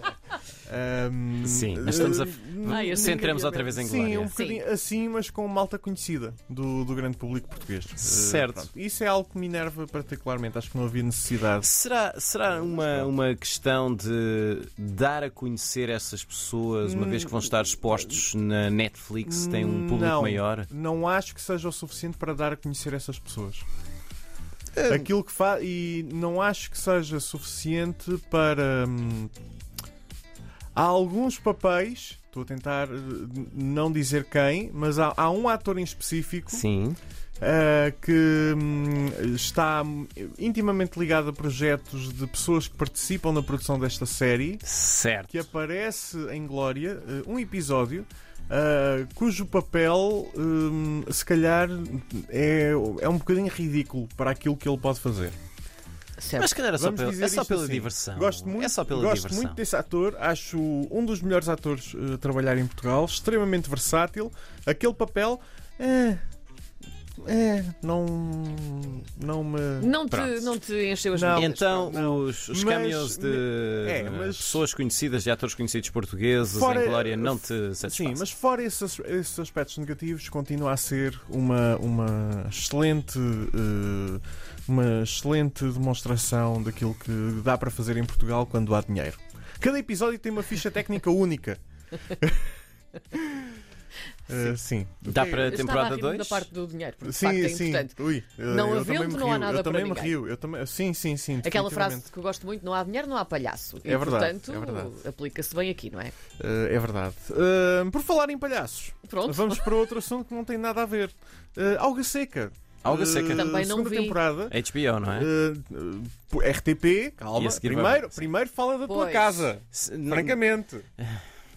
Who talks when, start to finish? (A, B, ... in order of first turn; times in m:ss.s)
0:00.7-0:11.7 A
0:01.4-0:04.4 B
0:02.6-0:04.6 C
0:08.0-0:08.7 B
0:11.6-0:20.7 B
0:12.6-0:13.1 A
0:16.8-0:18.2 A
0:19.2-0:23.7 A
0:24.8-0:25.1 B
0:24.9-0:29.3 A
0:30.8-0:36.6 A
0:36.5-0:37.0 B
0:37.4-0:44.6 A
0:44.6-0:45.5 B
0:45.3-0:55.4 A
0:56.2-0:56.5 C
0:56.4-0:59.6 B
0:56.8-1:06.2 A
1:07.2-1:09.9 A
1:09.8-1:11.9 C
1:10.1-1:10.6 B
1:11.1-1:14.6 A
1:11.4-1:18.3 B
1:16.5-1:32.5 A
1:34.3-1:35.7 A
1:35.0-1:36.5 B
1:35.4-1:40.2 C
1:37.0-1:42.1 A
1:41.4-1:46.1 C
1:43.8-1:44.9 A
1:46.4-2:00.9 A
1:49.1-1:49.7 C
1:52.8-1:53.6 B
1:53.3-1:54.2 C
1:54.5-1:55.3 B
1:57.3-1:58.3 B
1:58.9-1:59.6 C
1:59.7-2:00.4 B